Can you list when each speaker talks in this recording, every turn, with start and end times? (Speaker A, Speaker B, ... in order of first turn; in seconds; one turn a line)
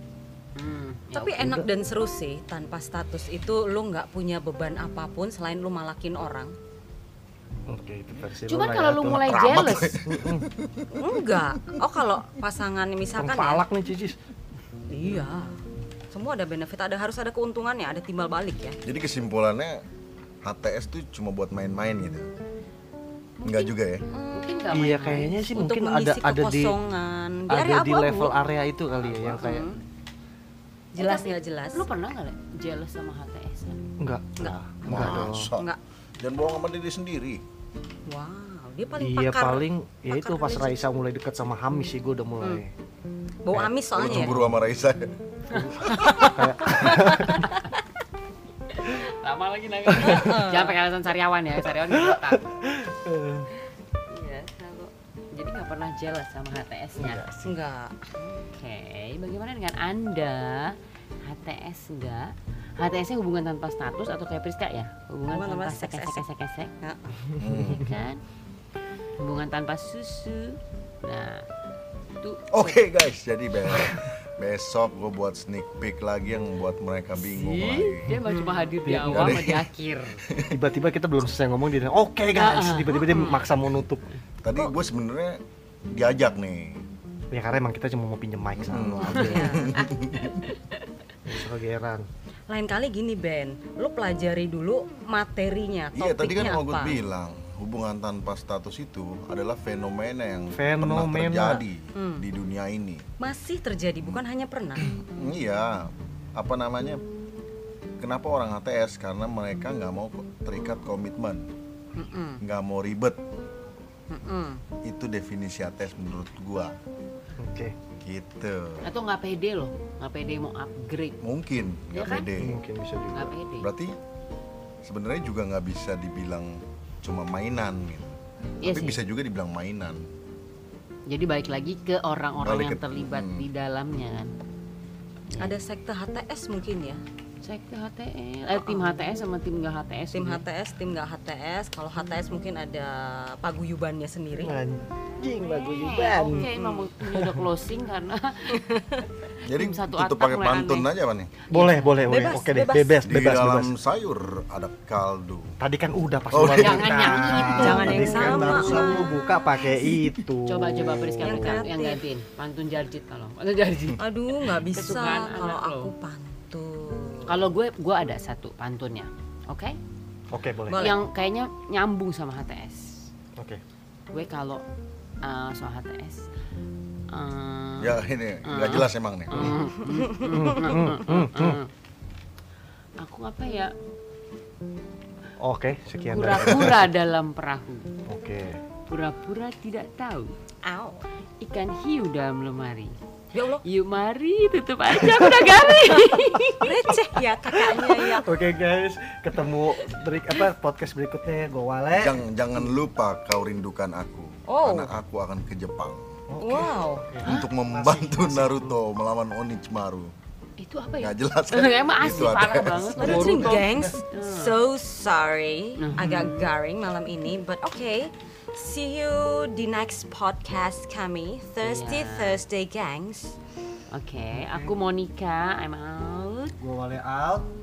Speaker A: 0.6-1.6
Speaker B: 1.1-6.5
Speaker C: 7.7-9.3
Speaker A: 8.5-10.0
Speaker D: 9.1-10.9
Speaker C: 10.0-10.5
Speaker B: 10.9-13.6
Speaker C: 13.2-14.2
Speaker B: 14.9-15.5
Speaker B: 16.1-18.8
Speaker D: 18.8-19.8
Speaker D: 20.4-22.3
Speaker A: 23.4-23.7
Speaker D: 23.4-24.1
Speaker B: 24.1-28.3
Speaker A: 24.3-25.3
Speaker C: 24.7-26.8
Speaker C: 27.5-29.7
Speaker A: 29.1-29.6
Speaker B: 29.4-29.8
Speaker B: 30.9-31.8
Speaker A: 31.0-33.9
Speaker C: 34.0-35.5
Speaker B: 34.4-35.8
Speaker D: 34.8-37.4
Speaker B: 38.1-40.8
Speaker C: 39.0-42.7
Speaker B: 43.4-44.4
Speaker C: 43.5-44.5
Speaker D: 44.0-45.1
Speaker C: 45.5-47.5
Speaker D: 45.8-46.2
Speaker B: 45.9-47.4
Speaker A: 48.7-52.4
Speaker C: 49.9-50.2
Speaker B: 50.0-50.8
Speaker C: 51.8-53.5
Speaker A: 54.1-57.2
Speaker C: 57.0-57.5
Speaker B: 57.4-58.2
Speaker A: 58.5-66.7
Speaker B: 65.3-66.2
Speaker B: 66.8-67.1
Speaker D: 67.4-67.9
Speaker A: 67.4-68.2
Speaker A: 69.2-71.5
Speaker A: 72.2-72.8
Speaker D: 72.5-78.2
Speaker A: 77.2-80.2
Speaker C: 78.8-79.6
Speaker D: 79.0-79.6
Speaker C: 80.5-84.0
Speaker A: 82.3-83.5
Speaker D: 84.4-86.8
Speaker C: 87.3-89.8
Speaker D: 88.7-90.4
Speaker A: 89.0-90.8
Speaker B: 89.0-89.9
Speaker C: 91.2-92.1
Speaker B: 92.5-97.0
Speaker D: 95.9-103.0
Speaker C: 100.5-101.6
Speaker B: 102.0-102.2
Speaker B: 103.2-104.8
Speaker D: 104.8-107.0
Speaker D: 108.0-111.5
Speaker B: 111.9-112.4
Speaker D: 112.4-113.2
Speaker B: 114.1-114.6
Speaker D: 114.8-116.8
Speaker C: 117.4-117.7
Speaker D: 118.0-118.9
Speaker A: 118.8-121.2
Speaker D: 121.2-122.6
Speaker A: 121.9-122.3
Speaker C: 122.4-123.3
Speaker A: 123.1-123.7
Speaker D: 123.6-124.0
Speaker D: 124.8-130.1
Speaker A: 128.6-129.0
Speaker A: 131.1-134.3
Speaker D: 132.4-133.4
Speaker B: 135.4-137.0
Speaker A: 137.4-140.4
Speaker B: 138.6-138.9
Speaker B: 140.1-144.5
Speaker C: 144.4-146.4
Speaker A: 145.2-148.6
Speaker B: 146.3-146.9
Speaker C: 147.1-147.5
Speaker B: 148.6-149.0
Speaker D: 149.4-151.3
Speaker A: 149.4-150.9
Speaker A: 151.5-152.0
Speaker C: 151.5-153.7
Speaker B: 152.0-153.0
Speaker D: 153.0-155.6
Speaker C: 155.6-161.7
Speaker D: 156.3-157.2
Speaker A: 156.5-158.9
Speaker B: 157.4-159.1
Speaker A: 160.4-165.9
Speaker B: 161.2-162.0
Speaker B: 164.0-167.3
Speaker A: 167.2-169.8
Speaker C: 170.3-170.9
Speaker B: 170.7-171.0
Speaker A: 170.8-173.1
Speaker A: 174.1-174.6
Speaker A: 175.2-176.2
Speaker A: 177.1-181.7
Speaker D: 177.8-179.6
Speaker C: 180.2-181.6
Speaker A: 183.0-183.7
Speaker C: 185.4-186.9
Speaker A: 186.1-187.9
Speaker C: 188.1-188.6
Speaker A: 188.9-190.3
Speaker B: 190.6-191.0
Speaker A: 191.4-192.9
Speaker B: 193.3-193.6
Speaker A: 193.6-196.9
Speaker B: 196.6-198.3
Speaker C: 197.7-202.7
Speaker D: 201.9-206.1
Speaker B: 204.5-205.0
Speaker C: 206.3-208.8
Speaker B: 206.4-207.1
Speaker D: 207.2-210.1
Speaker A: 210.6-214.6
Speaker D: 211.0-213.9
Speaker B: 213.0-223.3
Speaker A: 215.8-216.5
Speaker A: 221.6-222.4
Speaker A: 223.9-226.6
Speaker C: 224.3-224.7
Speaker C: 226.6-227.5